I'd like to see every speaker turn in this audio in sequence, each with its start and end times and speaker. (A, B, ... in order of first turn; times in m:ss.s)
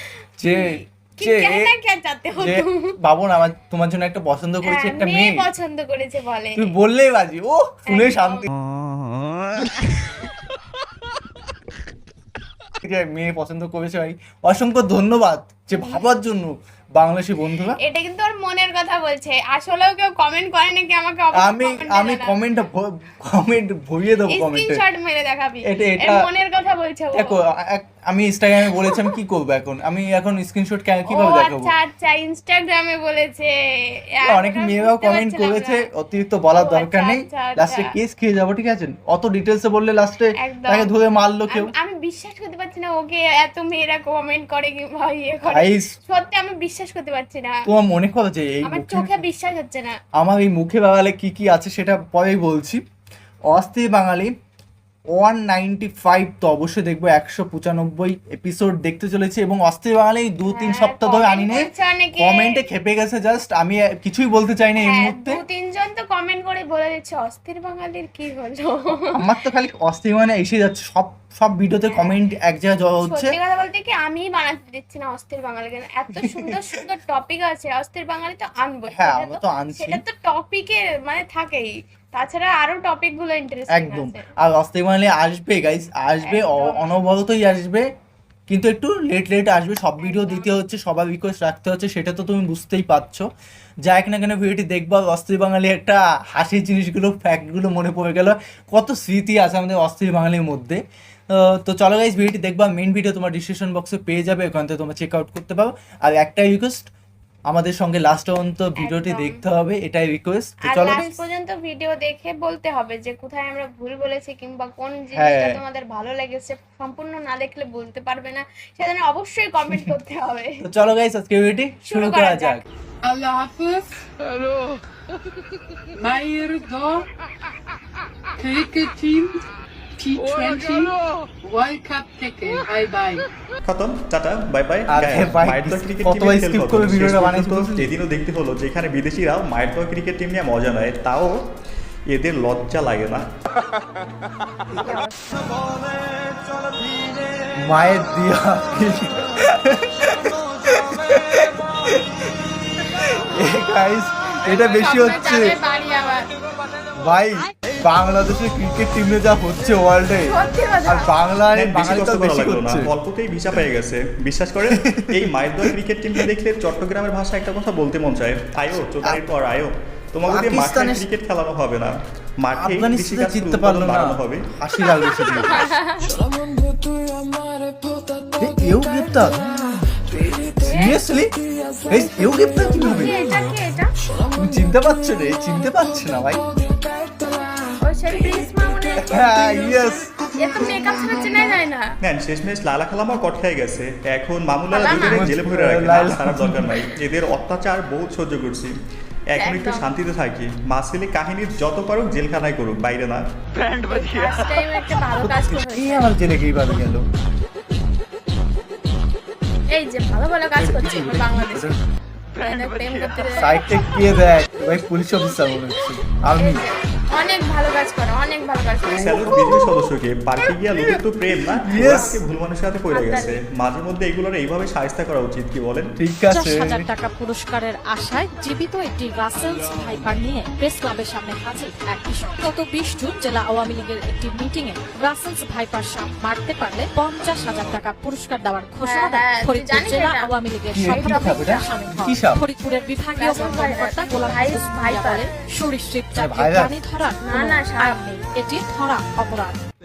0:00.4-0:01.7 A
0:00.5-0:02.9 B
0:02.4-0:05.5 A
0:04.6-0:06.7 B
0:06.6-0:08.5 A
0:07.9-0:08.5 B
0:12.8-0:17.8 A
0:15.8-0:16.0 B
0:17.8-0:22.3 B
0:21.4-0:24.8 A
0:24.3-0:27.3 B
0:25.7-0:26.2 A
0:27.2-0:31.7 A
0:31.1-0:33.5 B
0:34.2-0:35.8 B
0:34.3-0:41.7 A
0:36.6-0:37.9 B
0:40.4-0:40.9 B
0:41.5-0:47.5 B
0:45.5-0:45.9 A
0:47.7-0:49.2 A
0:48.6-0:50.0 B
0:50.2-0:52.8 A
0:53.5-0:54.3 A
0:55.1-1:05.4 A
1:00.5-1:02.6 B
1:04.8-1:08.8 B
1:09.2-1:13.3 A
1:13.1-1:24.2 B
1:16.2-1:16.5 A
1:18.9-1:20.0 A
1:23.7-1:27.8 A
1:26.2-1:27.0 B
1:28.5-1:33.3 A
1:30.0-1:30.5 B
1:33.9-1:40.8 A
1:41.3-1:46.9 A
1:47.5-1:51.2 A
1:48.8-1:49.4 B
1:50.7-2:00.6 B
1:55.2-1:55.6 A
2:00.6-2:02.6 A
2:01.9-2:02.6 B
2:03.0-2:04.0 C
2:06.0-2:07.1 C
2:08.4-2:09.4 C
2:10.0-2:13.3 C
2:13.6-2:21.4 D
2:14.9-2:17.9 A
2:22.1-2:23.2 D
2:24.8-2:25.4 B
2:27.6-2:32.1 A
2:32.8-2:35.6 A
2:34.4-2:36.2 B
2:37.0-2:42.9 A
2:40.3-2:41.1 B
2:41.5-2:54.4 D
2:44.7-2:45.7 A
2:50.3-2:51.1 A
2:52.6-2:55.6 A
2:55.1-2:56.2 B
2:58.4-2:59.4 A
3:00.6-3:01.3 A
3:00.7-3:01.0 B
3:01.9-3:03.2 A
3:02.9-3:03.9 B
3:04.4-3:06.4 A
3:07.9-3:09.3 B
3:09.0-3:10.1 A
3:10.4-3:11.8 B
3:12.0-3:18.7 D
3:14.7-3:15.3 B
3:15.0-3:16.7 A
3:19.3-3:23.2 D
3:19.4-3:19.9 B
3:23.8-3:26.1 B
3:25.4-3:27.0 A
3:29.7-3:31.7 B
3:30.6-3:31.8 A
3:32.4-3:33.5 B
3:33.4-3:36.6 A
3:36.4-3:39.5 B
3:38.9-3:45.9 D
3:40.8-3:42.2 A
3:41.8-3:42.2 B
3:42.9-3:43.4 B
3:46.0-3:46.8 A
3:46.3-4:09.6 E
3:58.8-4:00.4 B
4:00.7-4:02.4 A
4:00.9-4:01.6 B
4:03.2-4:05.3 B
4:06.1-4:06.7 A
4:07.2-4:08.0 B